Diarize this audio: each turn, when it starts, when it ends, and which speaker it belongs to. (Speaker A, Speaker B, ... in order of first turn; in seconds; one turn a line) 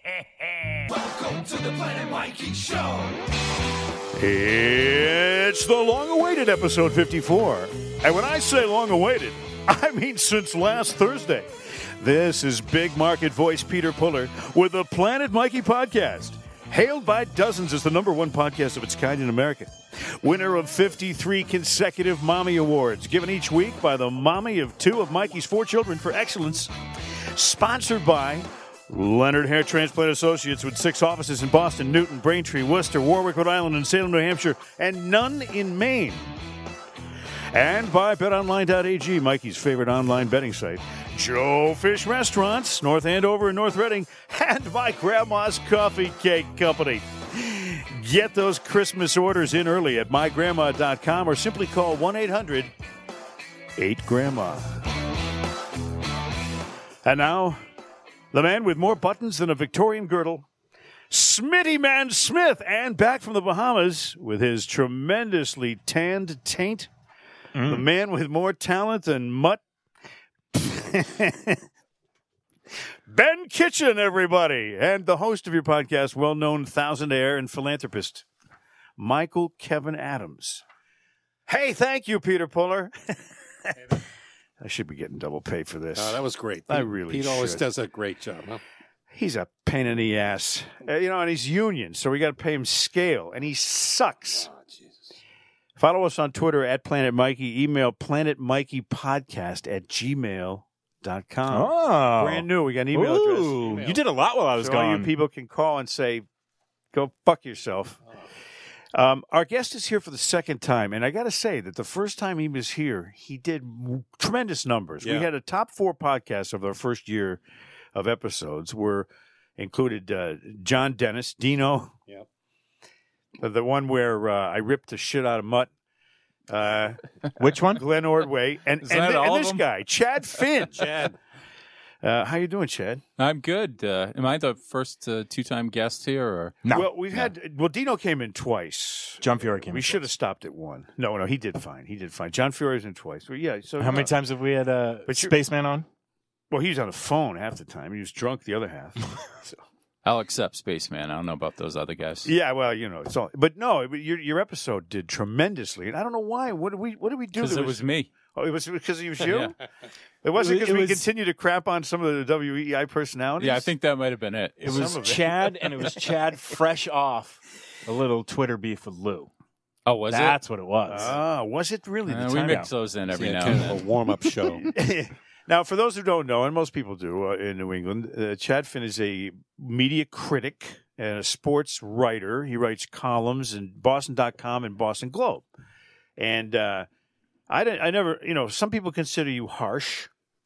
Speaker A: 0.9-3.2
Speaker B: 4.1-36.4
Speaker B: 37.5-52.7
Speaker B: 53.8-54.8
Speaker B: 57.0-57.6
Speaker B: 58.3-60.5
Speaker B: 61.1-66.9
Speaker C: 67.5-67.8
Speaker B: 67.6-69.6
Speaker B: 70.5-71.6
Speaker B: 73.1-78.2
Speaker B: 79.0-80.6
Speaker B: 81.5-84.0
Speaker B: 84.6-87.6
Speaker D: 85.9-88.6
Speaker B: 89.1-94.5
Speaker D: 94.5-94.9
Speaker B: 95.8-103.8
Speaker C: 101.5-105.1
Speaker D: 103.7-104.0
Speaker B: 104.5-106.2
Speaker B: 106.9-108.0
Speaker B: 108.9-117.4
Speaker D: 115.0-115.3
Speaker B: 117.9-121.9
Speaker B: 123.4-125.7
Speaker B: 126.5-127.0
Speaker C: 127.4-127.8
Speaker B: 127.6-130.8
Speaker E: 128.8-129.6
Speaker D: 130.7-131.2
Speaker B: 132.0-133.0
Speaker E: 133.2-136.6
Speaker B: 136.7-144.1
Speaker C: 139.2-140.0
Speaker C: 143.8-145.9
Speaker B: 145.1-145.3
Speaker B: 146.5-149.6
Speaker E: 150.0-152.3
Speaker B: 152.2-157.8
Speaker E: 157.4-158.1
Speaker B: 158.3-159.5
Speaker E: 159.2-159.5
Speaker B: 160.2-163.7
Speaker C: 160.3-161.1
Speaker E: 163.4-165.0
Speaker C: 164.6-169.3
Speaker B: 164.6-165.9
Speaker E: 169.8-170.4
Speaker C: 170.1-171.2
Speaker B: 170.9-172.7
Speaker E: 172.1-173.9
Speaker D: 173.1-174.7
Speaker B: 174.7-185.4
Speaker B: 186.2-186.9
Speaker B: 187.5-190.1